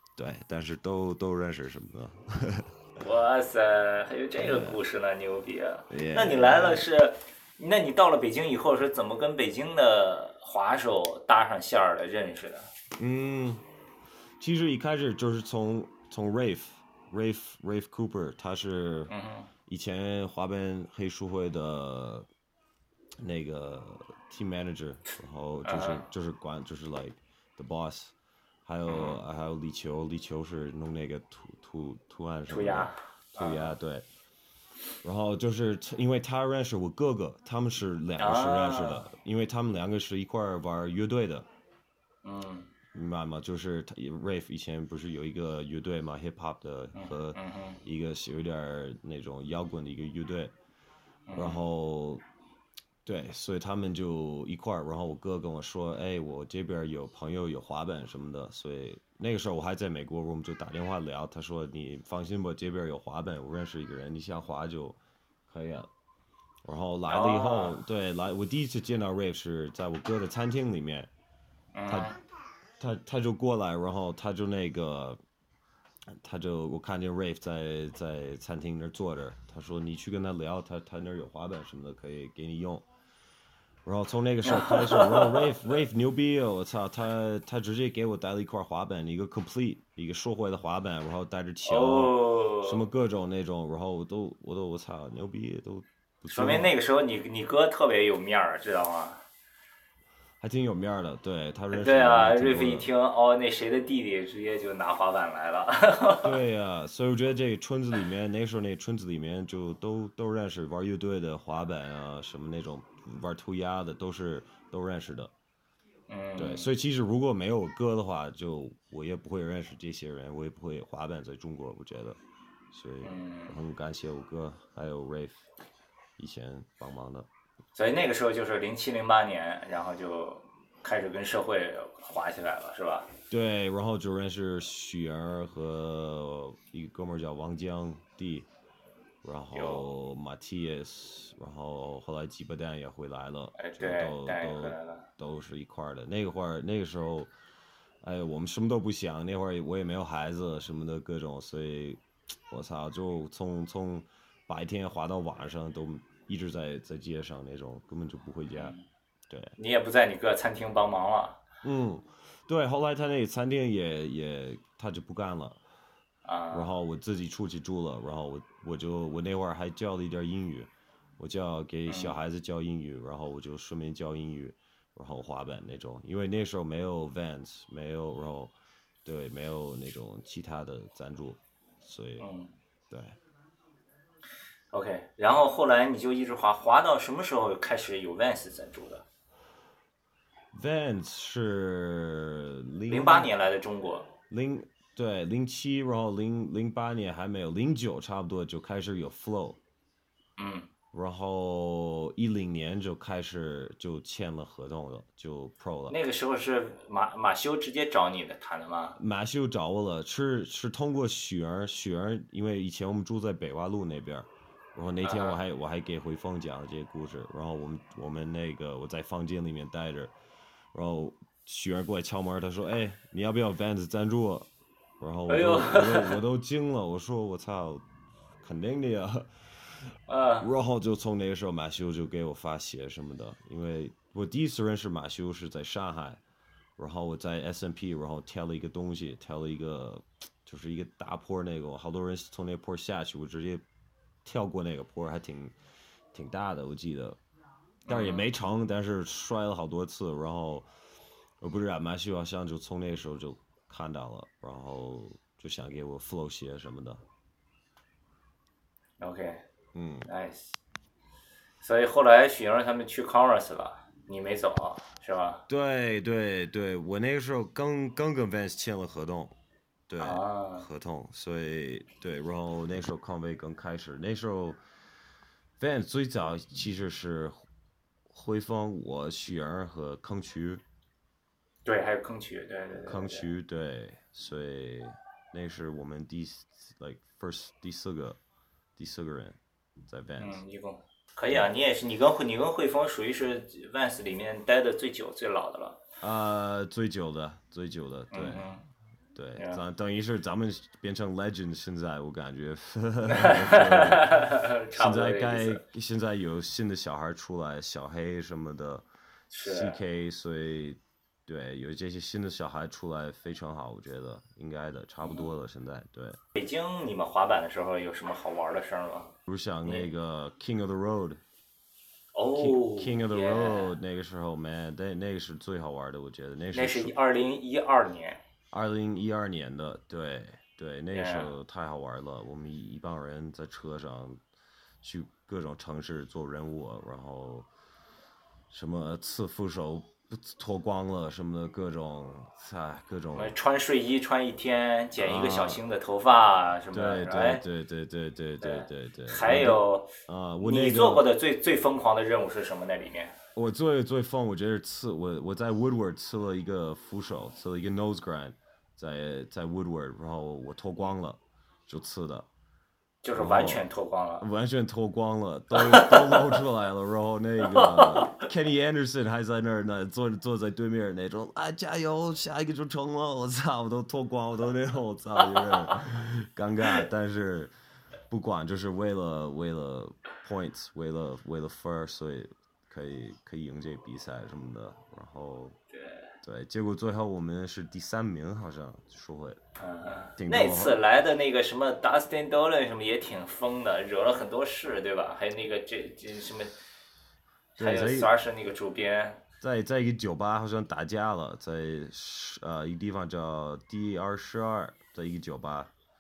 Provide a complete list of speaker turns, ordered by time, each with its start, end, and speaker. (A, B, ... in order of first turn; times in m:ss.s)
0:00.2-0:02.7 A
0:03.0-0:12.7 B
0:04.4-0:04.8 A
0:05.9-0:06.8 A
0:13.0-0:13.6 A
0:14.4-0:19.1 A
0:19.1-0:19.5 B
0:19.7-0:22.3 A
0:23.2-0:28.1 A
0:25.6-0:26.0 B
0:28.7-0:34.1 A
0:28.9-0:29.2 B
0:32.5-0:33.8 B
0:35.0-0:41.5 A
0:38.2-0:39.1 B
0:42.2-0:42.7 B
0:42.9-0:50.6 A
0:47.0-0:47.8 B
0:51.3-0:51.6 B
0:51.3-0:52.2 A
0:53.0-1:05.9 A
1:06.6-1:11.1 A
1:07.1-1:07.8 B
1:11.7-1:12.2 B
1:11.9-1:12.1 A
1:12.8-1:15.2 A
1:16.1-1:22.9 A
1:23.8-1:36.7 A
1:24.4-1:25.5 B
1:31.7-1:32.8 B
1:36.3-1:39.2 B
1:40.4-1:42.9 A
1:41.7-1:46.4 B
1:46.2-1:55.3 A
1:56.1-1:56.7 B
1:56.4-2:02.2 A
2:02.7-2:05.4 A
2:03.0-2:03.6 B
2:06.2-2:07.3 A
2:07.8-2:13.1 B
2:13.3-2:18.5 A
2:19.2-2:27.3 A
2:19.5-2:19.9 B
2:23.6-2:25.1 B
2:28.0-2:38.7 A
2:38.5-2:38.8 B
2:39.3-2:39.6 A
2:39.6-2:41.4 B
2:41.6-2:45.6 A
2:46.2-2:46.7 B
2:46.5-2:58.5 A
2:51.9-2:52.2 B
2:59.0-3:02.2 A
3:02.2-3:02.5 B
3:02.9-3:03.2 A
3:04.7-3:09.0 B
3:10.5-3:13.3 A
3:12.9-3:14.1 B
3:14.3-3:19.6 A
3:20.4-3:20.7 B
3:20.9-3:26.0 A
3:25.9-3:29.0 B
3:29.0-3:40.1 A
3:35.0-3:35.4 B
3:40.7-3:44.5 A
3:45.0-3:47.8 A
3:45.3-3:46.2 B
3:48.4-3:49.8 A
3:50.1-3:50.5 B
3:50.4-3:56.2 A
3:56.8-4:03.6 A
4:04.2-4:05.6 A
4:06.1-4:07.2 A
4:07.9-4:08.3 B
4:07.9-4:10.7 A
4:11.4-4:17.0 A
4:19.0-4:19.4 B
4:19.7-4:20.1 A
4:20.1-4:20.6 B
4:21.6-4:25.4 B
4:25.5-4:29.4 A
4:29.9-4:34.6 A
4:30.0-4:30.7 B
4:35.6-4:37.4 A
4:38.1-4:40.6 A
4:41.6-4:43.3 B
4:42.9-4:48.2 A
4:48.8-4:50.4 A
4:50.2-4:55.8 B
4:56.0-4:58.5 A
4:58.1-4:58.6 B
4:59.2-5:08.9 A
5:03.0-5:05.6 B
5:09.3-5:09.8 B
5:09.4-5:16.2 A
5:15.0-5:15.3 B
5:16.4-5:19.1 B
5:19.3-5:21.2 A
5:22.2-5:23.8 B
5:22.4-5:26.9 A
5:26.5-5:28.2 B
5:28.5-5:34.2 A
5:30.9-5:31.3 B
5:34.8-5:37.5 A
5:38.5-5:43.3 A
5:43.2-5:47.4 B
5:45.0-5:45.6 A
5:46.7-5:51.0 A
5:48.4-5:53.1 B
5:53.4-6:02.3 A
6:03.0-6:04.2 B
6:03.1-6:03.7 A
6:04.2-6:17.5 A
6:05.5-6:06.4 B
6:07.4-6:08.3 B
6:15.4-6:15.7 B
6:18.1-6:25.6 A
6:25.7-6:26.1 B
6:26.2-6:29.4 A
6:29.6-6:36.6 B
6:30.2-6:30.8 A
6:37.6-6:38.1 A
6:37.6-6:39.2 B
6:39.4-6:45.7 A